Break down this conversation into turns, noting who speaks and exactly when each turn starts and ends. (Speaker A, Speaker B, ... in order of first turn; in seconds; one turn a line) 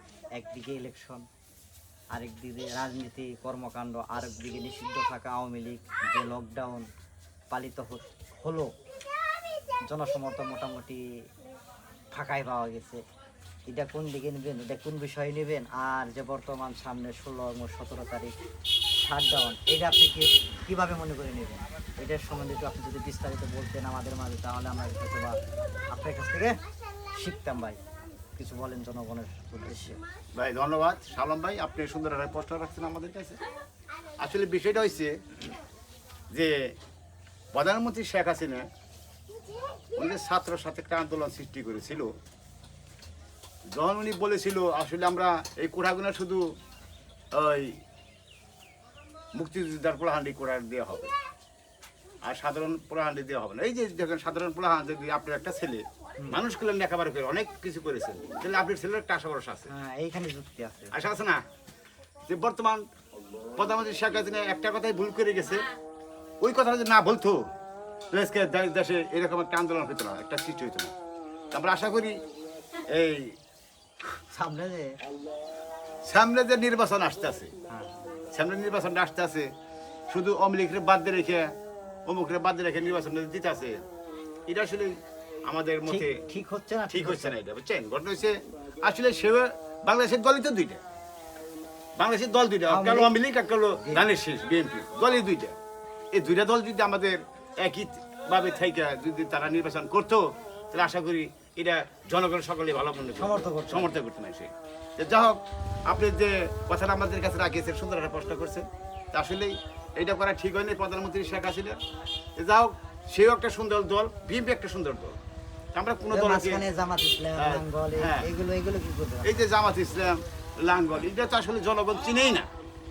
Speaker A: 0.3-1.2
Speaker A: 2.1-6.9
Speaker A: 7.5-8.7
Speaker A: 9.9-11.0
Speaker A: 12.1-13.0
Speaker A: 13.7-18.3
Speaker A: 19.0-25.4
Speaker A: 25.9-26.6
Speaker A: 27.1-27.8
Speaker A: 28.4-30.0
Speaker B: 30.3-33.4
Speaker B: 34.2-35.1
Speaker B: 36.3-36.7
Speaker B: 37.5-38.6
Speaker B: 39.9-42.1
Speaker B: 43.7-46.5
Speaker B: 47.3-47.8
Speaker B: 49.3-51.1
Speaker B: 52.2-59.7
Speaker A: 59.7-60.9
Speaker B: 60.9-61.4
Speaker B: 62.3-62.9
Speaker B: 63.6-65.7
Speaker B: 66.4-67.5
Speaker B: 68.1-70.9
Speaker B: 71.5-72.2
Speaker B: 72.9-73.3
Speaker A: 74.3-75.0
Speaker B: 76.0-77.5
Speaker A: 77.7-78.1
Speaker B: 78.3-79.5
Speaker B: 80.1-81.5
Speaker B: 82.0-83.8
Speaker B: 84.5-86.2
Speaker A: 85.9-87.3
Speaker B: 86.9-90.8
Speaker B: 92.0-95.6
Speaker A: 92.7-93.1
Speaker B: 96.1-111.8
Speaker A: 103.2-103.9
Speaker B: 112.4-115.2
Speaker B: 115.7-116.6
Speaker A: 116.1-119.4
Speaker B: 117.4-118.3
Speaker B: 119.2-122.5